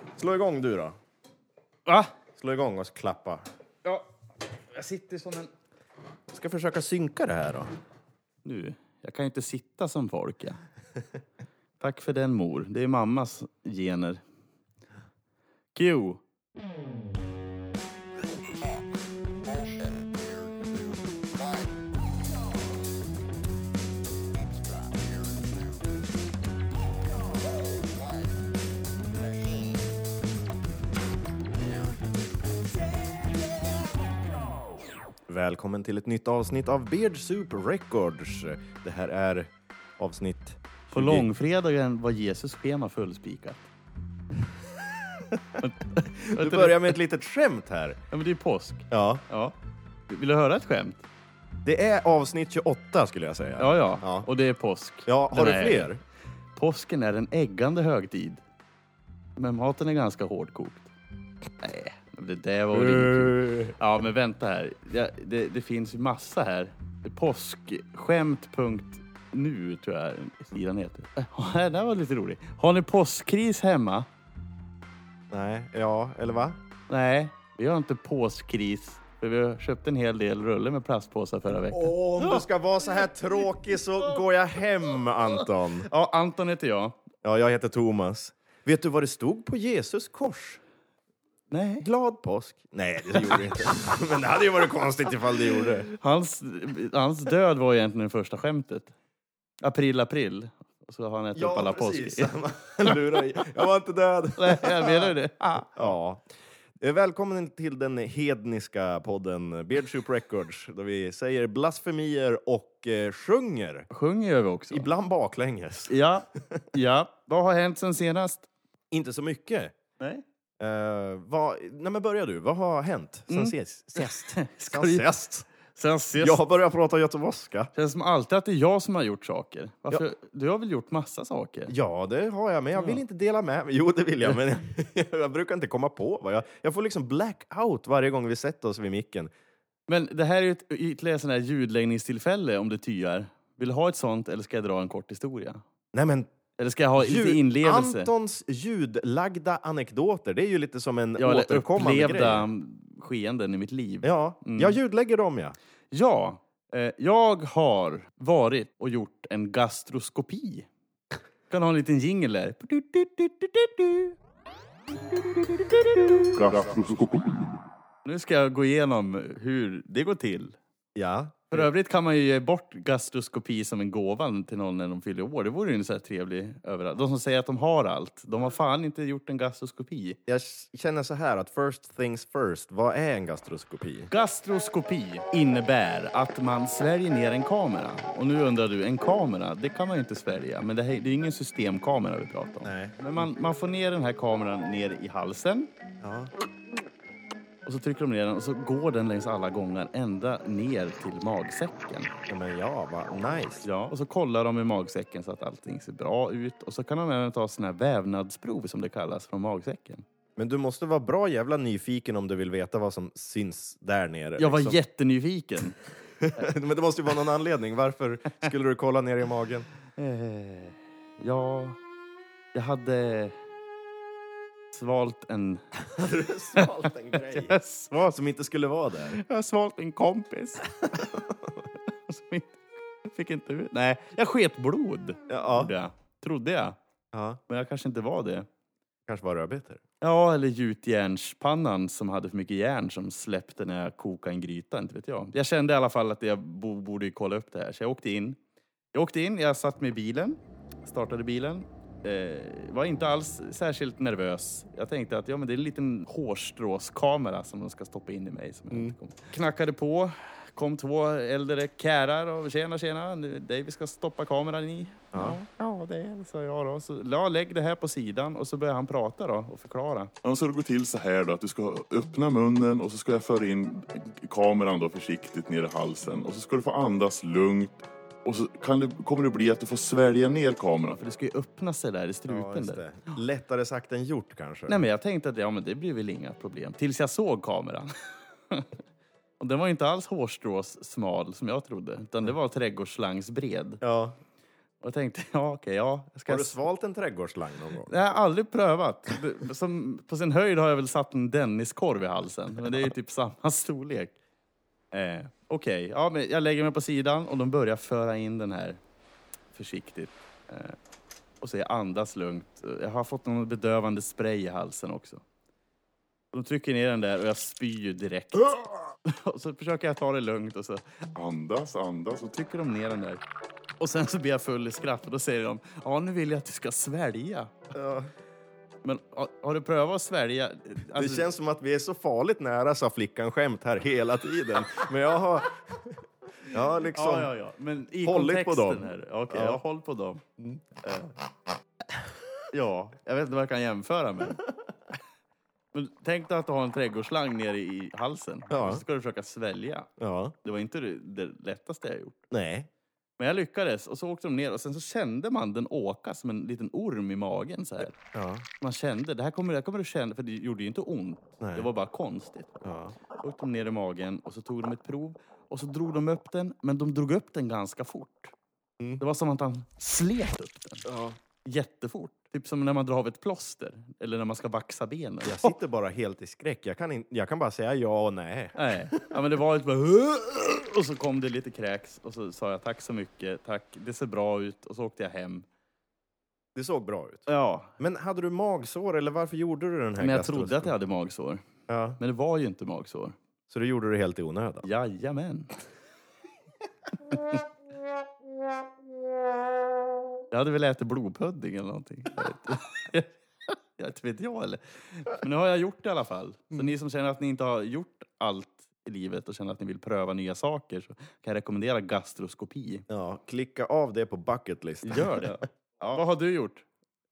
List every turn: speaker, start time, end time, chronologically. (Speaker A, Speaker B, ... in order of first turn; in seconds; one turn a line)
Speaker A: 0.2-1.0
Speaker A: 2.4-3.5
Speaker B: 4.7-5.5
Speaker A: 6.3-7.7
Speaker B: 8.4-10.6
Speaker B: 11.8-14.2
Speaker B: 15.7-16.2
Speaker A: 35.3-41.3
Speaker B: 40.9-43.6
Speaker B: 45.6-47.0
Speaker A: 46.0-48.0
Speaker B: 48.1-49.5
Speaker A: 48.9-49.2
Speaker B: 50.1-51.0
Speaker A: 51.6-54.3
Speaker B: 53.6-55.9
Speaker A: 55.0-56.0
Speaker B: 56.5-58.4
Speaker B: 59.4-60.9
Speaker B: 61.6-74.1
Speaker A: 62.7-63.8
Speaker A: 75.3-76.6
Speaker B: 76.9-82.4
Speaker A: 81.6-85.9
Speaker B: 85.8-87.0
Speaker A: 87.2-90.6
Speaker B: 91.5-91.9
Speaker A: 91.8-95.9
Speaker B: 96.0-98.9
Speaker B: 99.6-102.3
Speaker A: 101.3-105.1
Speaker B: 102.8-103.4
Speaker B: 104.4-105.9
Speaker A: 105.7-106.2
Speaker A: 106.8-113.9
Speaker B: 113.9-114.9
Speaker A: 114.7-116.6
Speaker B: 115.9-118.5
Speaker A: 118.9-119.7
Speaker A: 120.6-125.5
Speaker B: 123.3-125.0
Speaker B: 125.7-126.4
Speaker A: 126.2-127.7
Speaker B: 127.7-131.7
Speaker A: 131.7-139.3
Speaker B: 139.9-145.6
Speaker A: 145.9-146.3
Speaker B: 146.6-148.1
Speaker A: 147.0-152.5
Speaker B: 151.2-154.8
Speaker A: 154.0-155.6
Speaker B: 155.9-160.7
Speaker B: 161.5-164.1
Speaker B: 165.1-166.4
Speaker C: 166.3-167.6
Speaker B: 168.0-170.6
Speaker A: 170.9-171.7
Speaker B: 171.5-180.2
Speaker A: 180.3-184.1
Speaker B: 184.1-195.7
Speaker A: 192.6-193.3
Speaker A: 196.0-196.3
Speaker B: 197.6-202.1
Speaker A: 202.3-203.7
Speaker B: 203.6-210.0
Speaker A: 210.3-214.8
Speaker B: 214.4-215.8
Speaker A: 216.2-219.7
Speaker B: 219.9-221.8
Speaker B: 222.5-223.3
Speaker B: 224.7-225.6
Speaker A: 225.8-229.2
Speaker B: 226.6-228.1
Speaker B: 229.1-231.1
Speaker A: 230.9-231.3
Speaker B: 232.1-236.8
Speaker A: 235.3-235.7
Speaker A: 237.1-237.4
Speaker B: 237.5-238.5
Speaker A: 239.1-239.8
Speaker B: 240.0-248.4
Speaker B: 248.9-270.1
Speaker A: 258.7-258.9
Speaker C: 270.2-281.0
Speaker B: 281.0-282.8
Speaker A: 282.3-284.8
Speaker B: 284.7-287.9
Speaker B: 289.4-293.8
Speaker A: 293.8-294.2
Speaker B: 294.8-296.6
Speaker A: 296.3-297.9
Speaker B: 297.9-304.1
Speaker B: 304.9-308.8
Speaker B: 309.5-310.8
Speaker B: 311.4-315.2
Speaker B: 316.3-320.8
Speaker C: 321.1-322.5
Speaker B: 322.3-323.2
Speaker B: 323.8-327.6
Speaker A: 327.7-328.1
Speaker B: 328.8-331.3
Speaker A: 330.9-337.3
Speaker B: 336.9-340.2
Speaker A: 338.0-339.6
Speaker B: 340.8-341.1
Speaker B: 342.5-344.4
Speaker B: 345.7-349.9
Speaker A: 348.5-348.8
Speaker A: 350.0-350.3
Speaker B: 350.4-352.2
Speaker A: 352.3-352.7
Speaker B: 353.2-357.9
Speaker A: 357.9-358.4
Speaker B: 358.6-368.3
Speaker A: 361.4-361.7
Speaker A: 362.6-362.9
Speaker B: 369.0-370.8
Speaker A: 370.8-371.2
Speaker B: 371.4-375.5
Speaker A: 375.2-379.1
Speaker B: 378.5-385.4
Speaker A: 386.5-390.7
Speaker B: 387.3-387.7
Speaker B: 390.0-391.4
Speaker A: 391.7-392.0
Speaker B: 392.0-393.1
Speaker A: 393.5-394.7
Speaker B: 394.6-395.6
Speaker B: 397.1-397.4
Speaker B: 400.3-412.8
Speaker A: 412.9-415.4
Speaker B: 414.8-416.6